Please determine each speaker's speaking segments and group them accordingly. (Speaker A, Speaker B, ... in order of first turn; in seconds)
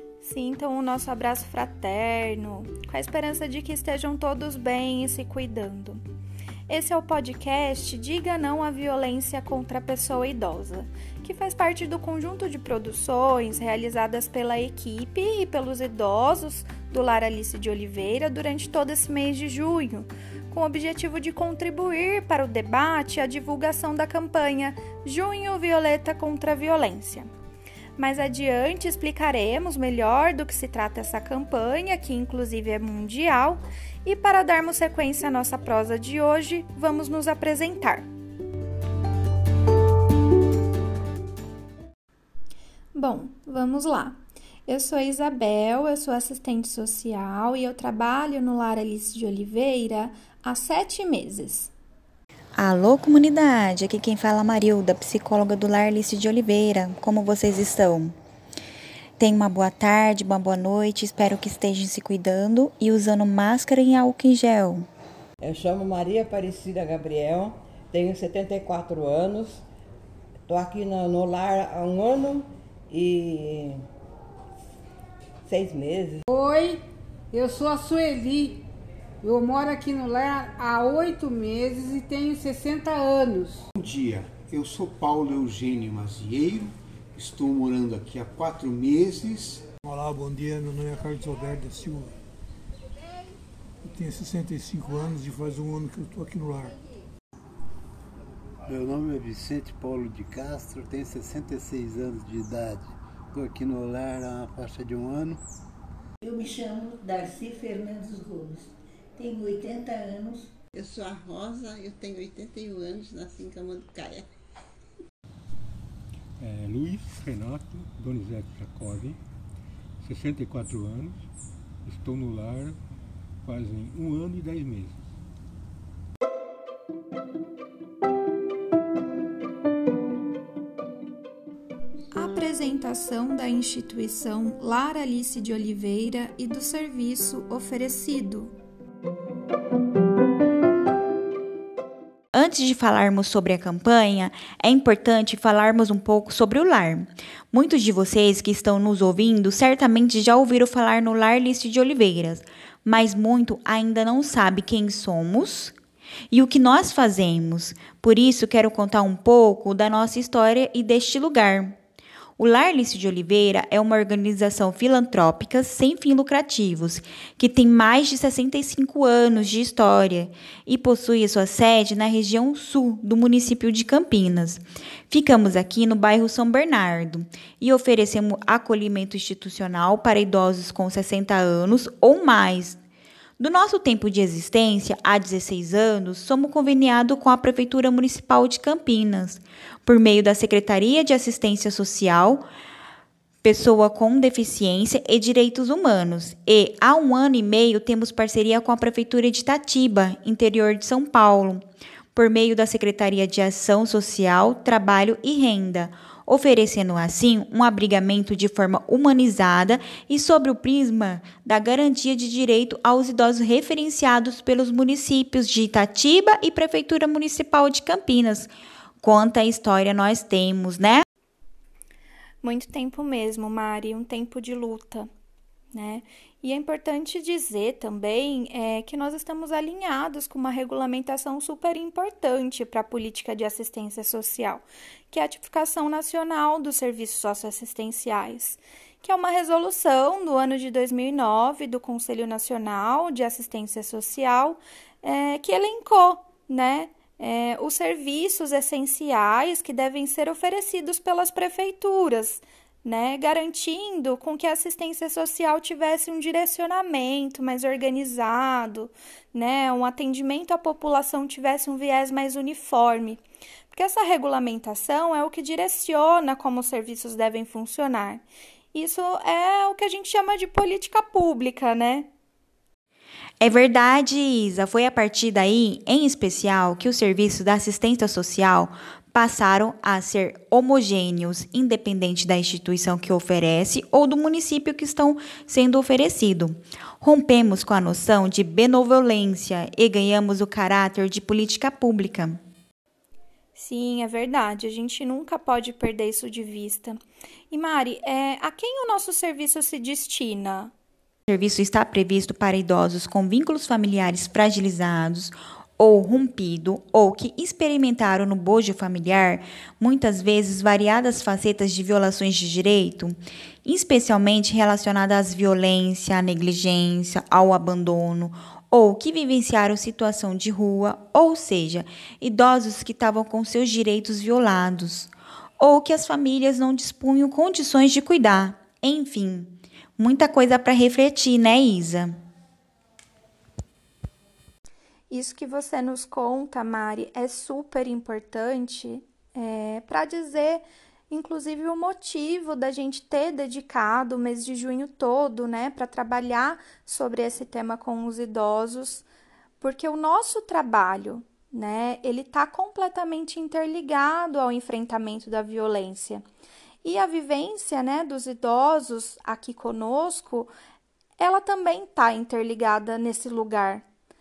Speaker A: 0.2-6.0, 6.7-27.3, 28.0-38.1, 42.9-51.7, 132.1-138.5, 222.4-225.1, 225.7-272.1, 293.5-300.7, 335.1-349.0, 349.6-356.2, 356.8-360.5, 361.2-363.8
Speaker B: 52.6-58.1, 59.2-64.9, 142.3-155.7, 156.3-161.8, 162.4-182.8, 183.4-192.4, 193.4-221.0, 273.4-292.4, 301.3-332.1
Speaker C: 65.4-69.6, 70.5-73.8, 75.5-76.2
Speaker D: 76.3-76.8, 77.3-78.6, 79.2-83.7
Speaker E: 83.8-89.6
Speaker F: 89.8-92.2, 93.8-96.8
Speaker G: 98.7-105.4
Speaker H: 106.2-110.5
Speaker I: 110.7-114.2
Speaker J: 116.4-119.2, 120.0-121.2, 121.8-122.8, 123.4-125.0